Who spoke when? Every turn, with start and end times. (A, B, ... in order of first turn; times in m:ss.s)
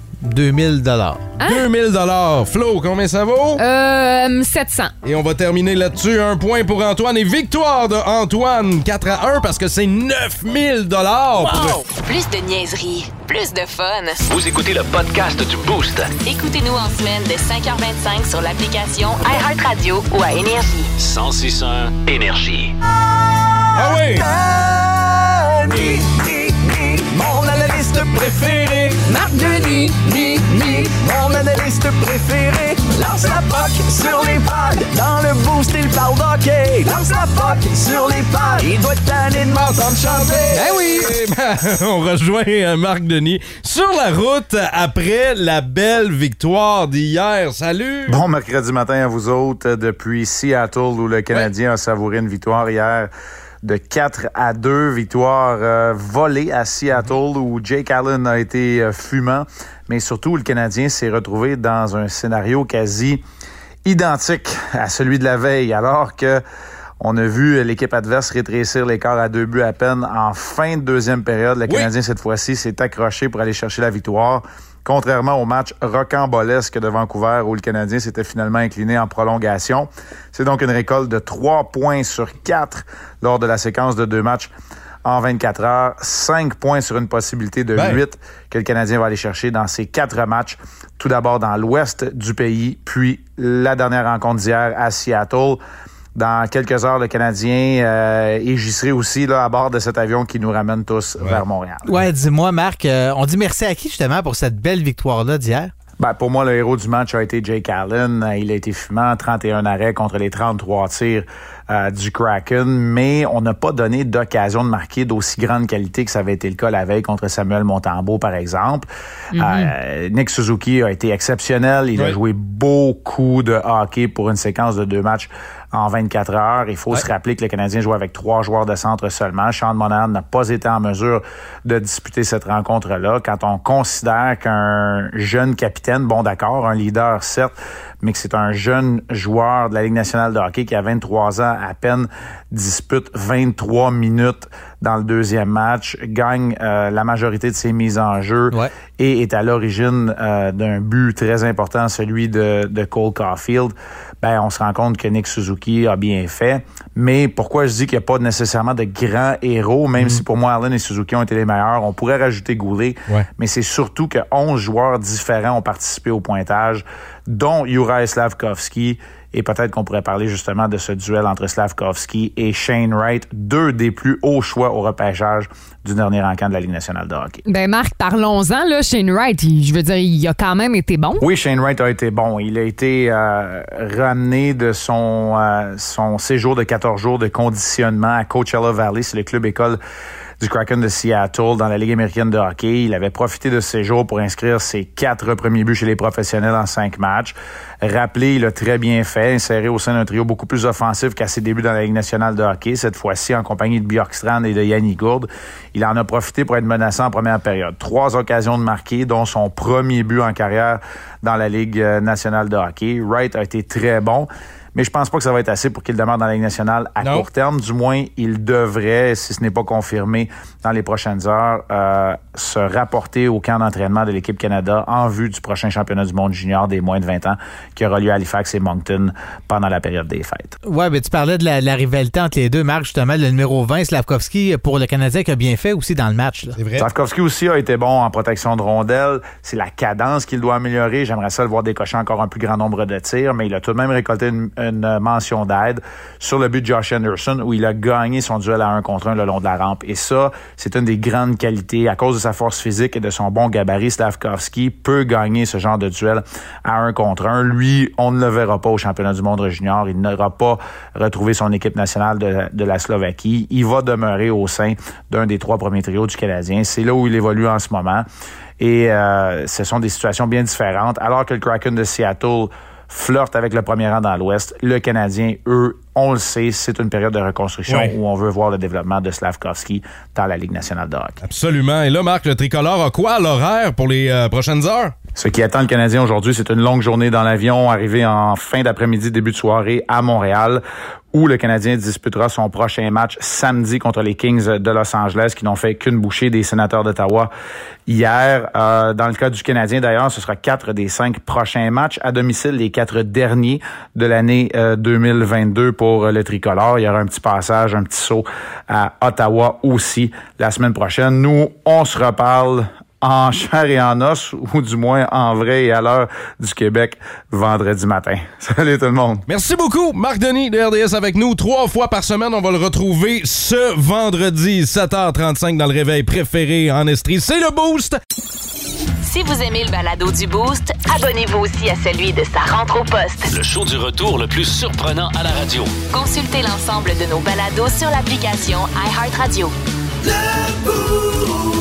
0:00.2-0:01.2 A
0:01.4-0:01.7 B
0:01.4-0:03.6 C
0:03.6-0:04.9 B
0:05.0-0:11.8 C
0:12.0-0:14.2 D
0:14.3-0:16.1 E
0:16.2-0:20.9 D
0:21.0-0:22.7 E
0:23.8-0:24.3 C
0:23.8-0:40.7 F
0:40.5-0:41.1 B
0:40.8-0:48.2 C
0:48.1-0:53.1 G
0:53.6-1:03.2 G
1:03.8-1:06.4 G
1:07.0-1:24.5 G
1:25.0-1:35.6 G
1:27.8-1:28.0 C
1:36.2-1:41.9 G
1:41.9-1:45.7 A
1:46.0-2:57.4 G
1:59.3-1:59.7 B
2:57.4-3:01.2 B
3:01.2-3:09.8 G
3:10.4-3:50.6 G
3:37.0-3:37.3 C
3:50.6-3:56.6 A
3:56.6-3:56.9 C
3:56.8-4:28.1 G
4:28.6-4:41.2 G
4:37.7-4:37.9 C
4:41.2-4:45.0 C
4:45.2-4:57.3 G
4:57.9-5:19.2 G
5:19.3-5:28.0 C
5:29.0-5:33.3 D
5:33.3-5:35.8 E
5:35.9-5:39.5 D
5:40.1-5:41.3 F